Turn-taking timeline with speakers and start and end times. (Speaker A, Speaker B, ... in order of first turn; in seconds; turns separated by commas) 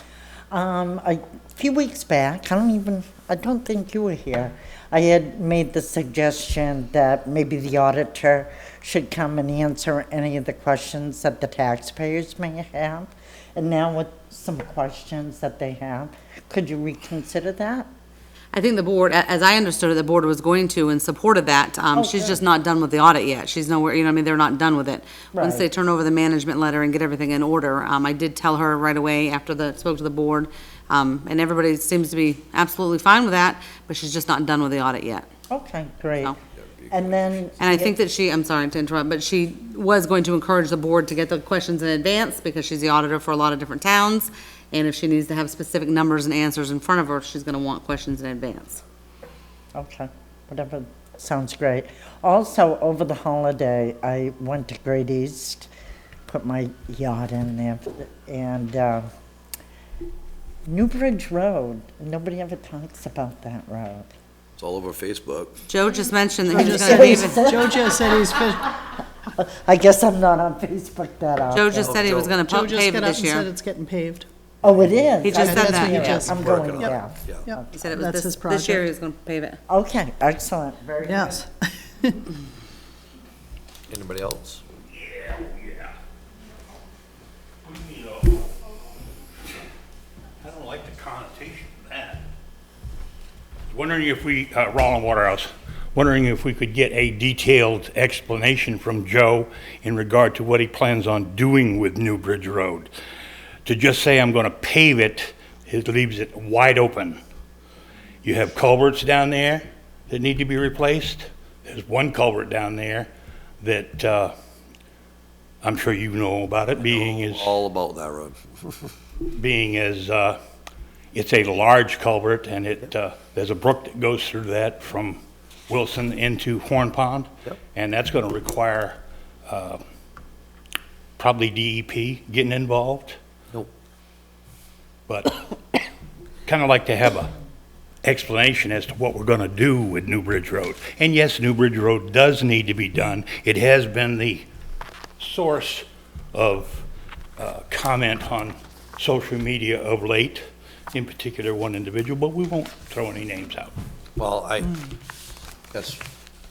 Speaker A: 0.5-17.9, Speaker B: 18.5-35.3, Speaker A: 21.9-22.4, Speaker A: 25.3-25.6, Speaker A: 35.5-36.4, Speaker C: 36.5-37.5, Speaker A: 36.9-38.0, Speaker B: 37.6-48.8, Speaker A: 49.7-55.7, Speaker A: 56.3-59.1, Speaker A: 60.7-64.1, Speaker C: 64.6-65.6, Speaker B: 65.7-67.4, Speaker D: 66.4-68.8, Speaker A: 66.5-72.2, Speaker B: 71.5-73.5, Speaker C: 71.8-72.4, Speaker D: 72.4-74.3, Speaker A: 74.6-77.8, Speaker B: 75.2-76.2, Speaker D: 75.3-76.9, Speaker C: 75.7-77.5, Speaker D: 77.4-78.9, Speaker B: 77.8-79.6, Speaker A: 79.7-81.4, Speaker D: 81.1-82.2, Speaker C: 83.9-84.6, Speaker E: 84.9-86.0, Speaker E: 87.6-88.4, Speaker E: 90.4-92.2, Speaker E: 93.7-102.9, Speaker E: 103.6-107.2, Speaker E: 108.2-114.3, Speaker E: 115.6-117.5, Speaker C: 116.8-118.9, Speaker E: 119.3-120.4, Speaker E: 121.1-129.8, Speaker E: 131.2-133.2, Speaker E: 135.1-135.4, Speaker E: 136.4-137.3, Speaker E: 138.0-144.4, Speaker E: 145.2-146.8, Speaker E: 147.4-153.7, Speaker C: 154.2-154.9, Speaker C: 155.7-156.0